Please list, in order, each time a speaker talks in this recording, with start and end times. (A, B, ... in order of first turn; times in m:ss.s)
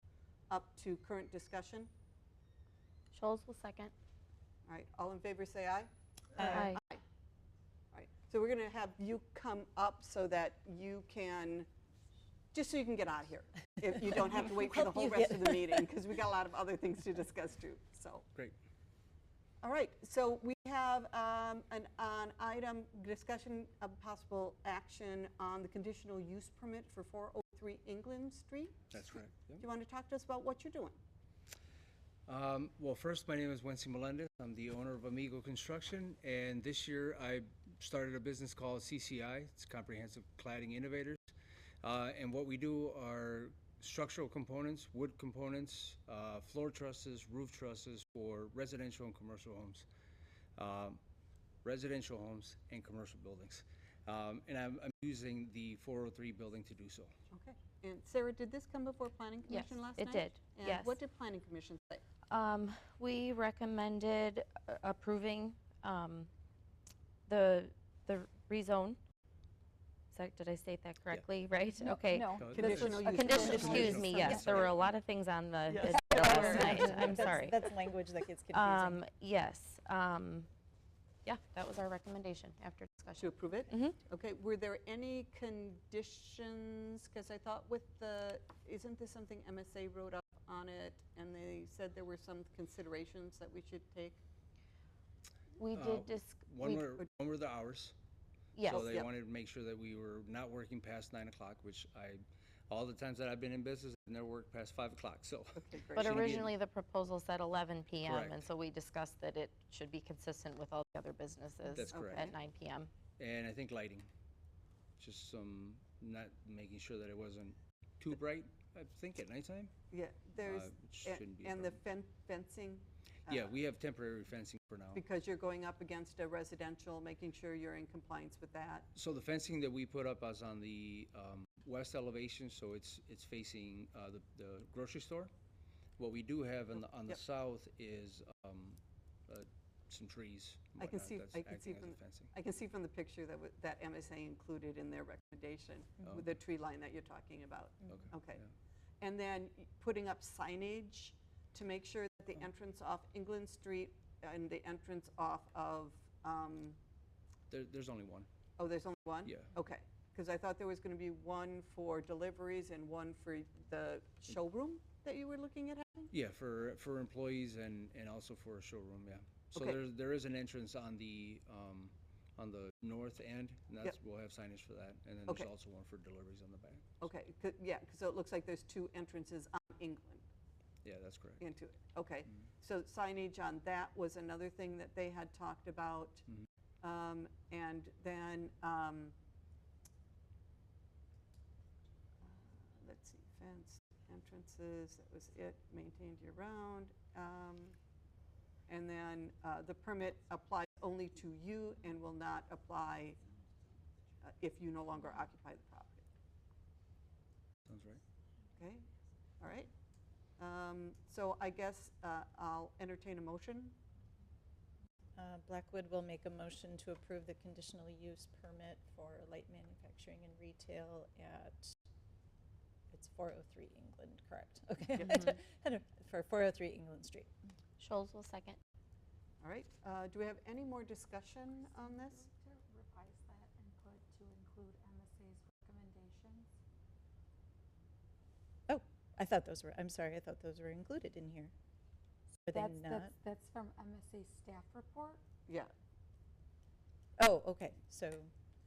0:00.5-0:01.9 A
0:03.1-0:03.9 B
0:04.7-0:07.0 A
0:06.4-0:06.7 C
0:06.4-0:06.8 B
0:07.9-0:11.7 A
0:12.5-0:18.2 A
0:14.4-0:15.9 C
0:19.6-0:28.7 A
0:28.9-0:29.6 D
0:29.6-0:31.0 A
0:32.3-0:49.8 D
0:50.6-0:51.0 D
0:51.6-0:57.1 D
0:57.3-1:02.0 A
0:59.5-1:01.0 B
1:02.3-1:06.3 B
1:07.3-1:09.0 B
1:10.1-1:17.6 B
1:11.8-1:14.6 E
1:12.3-1:15.0 D
1:12.5-1:14.7 A
1:15.7-1:17.2 A
1:15.8-1:19.0 C
1:16.3-1:17.1 E
1:18.5-1:20.5 B
1:21.2-1:24.0 B
1:23.2-1:34.2 A
1:35.6-1:36.8 B
1:35.7-1:37.9 D
1:38.6-1:39.1 B
1:38.6-1:46.6 D
1:38.7-1:39.0 A
1:45.6-1:46.4 A
1:45.9-1:52.9 B
1:48.0-1:48.4 D
1:51.7-1:52.3 D
1:51.9-1:52.3 A
1:53.2-1:54.1 D
1:55.0-1:59.7 D
1:59.9-2:03.5 A
2:00.4-2:01.8 D
2:03.3-2:05.0 D
2:04.9-2:08.9 A
2:08.9-2:15.3 D
2:16.0-2:22.3 D
2:20.8-2:28.4 A
2:27.9-2:28.5 D
2:29.0-2:36.8 A
2:37.5-2:38.3 D
2:38.6-2:46.1 A
2:39.2-2:39.5 D
2:46.1-2:56.9 D
2:49.5-2:49.8 A
2:57.0-3:00.2 A
3:00.8-3:01.4 D
3:01.4-3:06.2 A
3:06.8-3:09.2 A
3:12.2-3:17.8 A
3:18.7-3:23.2 A
3:24.2-3:26.1 A
3:27.7-3:28.0 D
3:28.6-3:28.8 A
3:29.4-3:29.7 A
3:30.4-3:33.8 A
3:35.2-3:41.8 C
3:42.9-3:47.3 C
3:47.8-3:48.6 B
3:49.4-3:52.3 A
3:51.7-3:56.5 E
3:58.7-4:01.5 C
4:02.4-4:03.1 C
4:02.5-4:05.2 E
4:05.5-4:05.7 A
4:07.2-4:08.3 C